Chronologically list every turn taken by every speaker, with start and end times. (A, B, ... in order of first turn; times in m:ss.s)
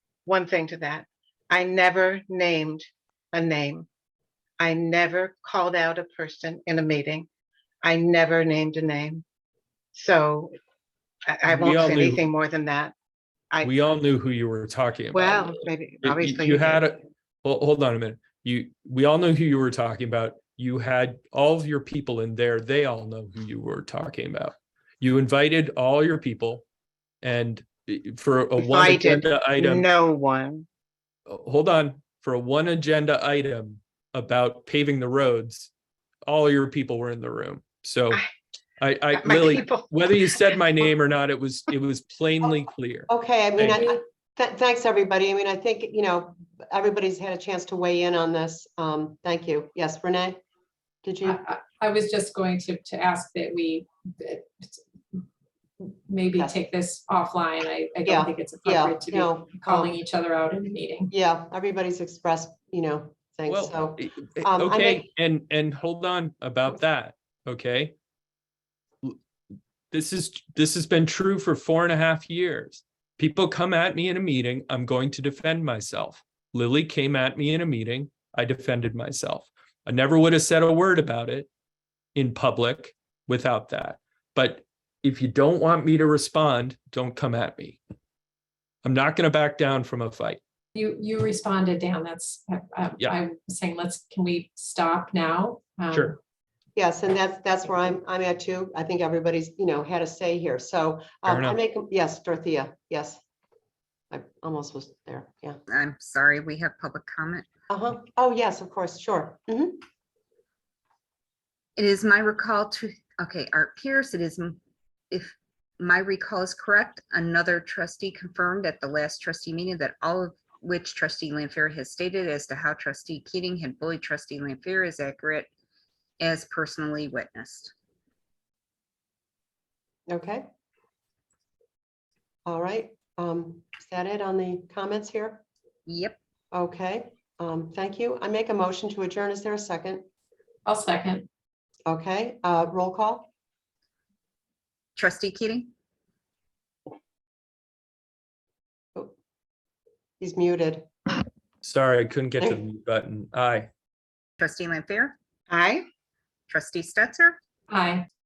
0:00.2-0:03.9 A
0:04.6-0:07.3 A
0:07.8-0:09.2 A
0:09.9-0:10.5 A
0:11.3-0:12.9 A
0:11.5-0:12.2 B
0:13.6-0:26.6 B
0:15.1-0:16.9 A
0:27.2-0:29.9 B
0:28.6-0:30.6 A
0:31.3-0:35.7 B
0:36.2-0:38.2 B
0:38.8-0:43.9 B
0:39.1-0:40.1 A
0:43.1-0:50.4 C
0:51.0-0:51.4 C
0:51.2-0:55.2 D
0:55.8-1:01.1 D
0:58.0-1:00.0 C
1:01.1-1:05.0 C
1:03.5-1:07.9 B
1:09.9-1:21.5 B
1:22.1-1:27.8 B
1:28.8-1:30.4 B
1:30.7-1:36.2 D
1:36.8-1:43.2 C
1:41.2-1:41.6 B
1:44.1-1:45.6 C
1:45.7-1:47.4 E
1:47.7-1:49.8 C
1:51.8-2:05.5 E
2:06.2-2:07.7 E
2:10.1-2:10.4 C
2:12.4-2:15.4 C
2:15.8-2:16.2 E
2:16.5-2:20.0 C
2:20.6-2:21.3 D
2:21.8-2:23.3 C
2:25.0-2:25.7 E
2:30.2-2:30.9 C
2:31.6-2:33.7 B
2:34.4-2:35.2 E
2:35.5-2:35.8 A
2:36.5-2:37.4 E
2:37.7-2:38.0 D